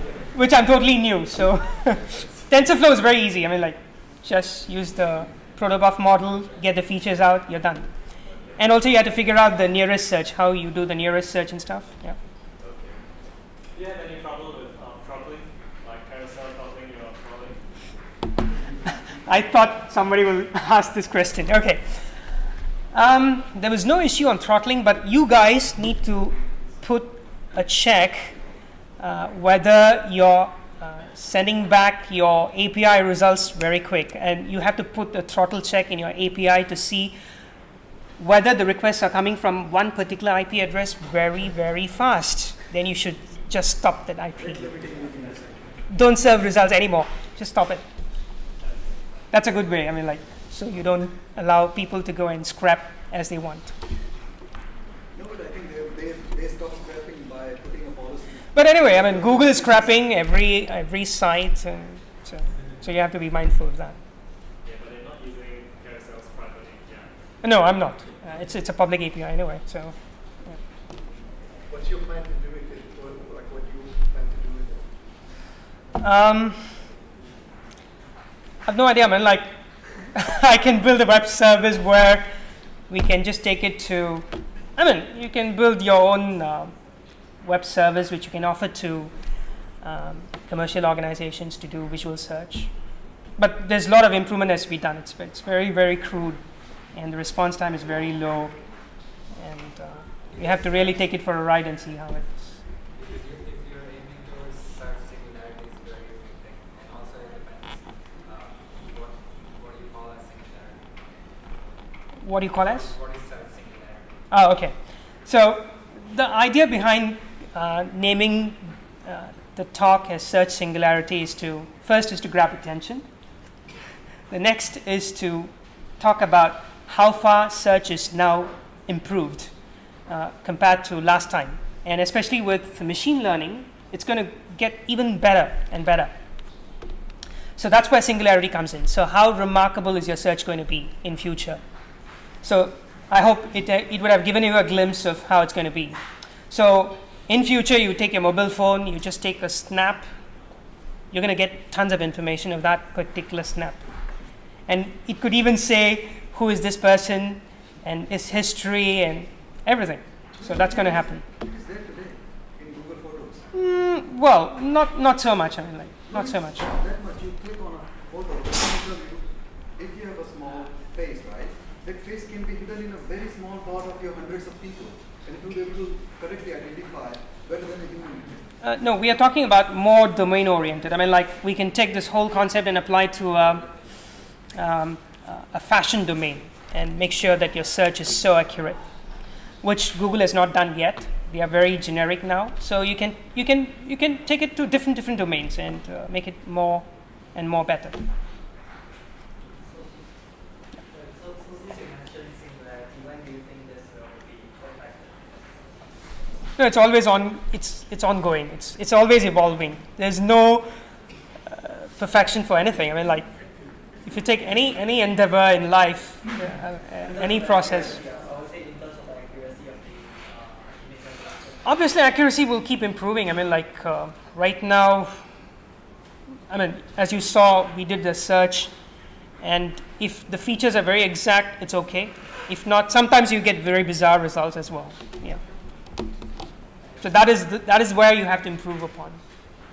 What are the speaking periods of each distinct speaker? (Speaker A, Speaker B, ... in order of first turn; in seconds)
Speaker A: 0.3-12.2, 19.1-22.3, 22.9-28.4, 29.0-37.2, 38.2-44.7, 45.9-47.8, 49.3-53.7, 58.5-64.0, 67.4-70.6, 76.0-76.7, 78.7-82.3, 82.9-86.7, 87.4-89.1, 89.8-92.7, 93.4-98.8, 99.3-102.6, 112.2-112.9, 114.3-123.0, 124.3-129.5, 130.1-136.1, 137.6-141.6, 142.4-150.1, 151.1-153.8, 154.7-161.2, 163.5-166.7, 178.6-183.7, 184.2-188.8, 189.6-198.0, 206.6-210.8, 211.4-213.3, 214.0-218.0, 221.6-225.2, 226.5-228.7, 229.4-235.4, 237.0-239.2
Speaker B: 12.6-13.0, 13.7-17.6, 64.6-67.1
Speaker C: 44.4-45.6, 55.1-60.1, 160.4-163.4, 166.1-178.4
Speaker D: 44.7-45.5, 100.4-100.9, 102.9-111.1, 112.4-114.2, 199.5-200.1, 200.8-205.8, 217.0-221.9
Speaker E: 71.7-74.9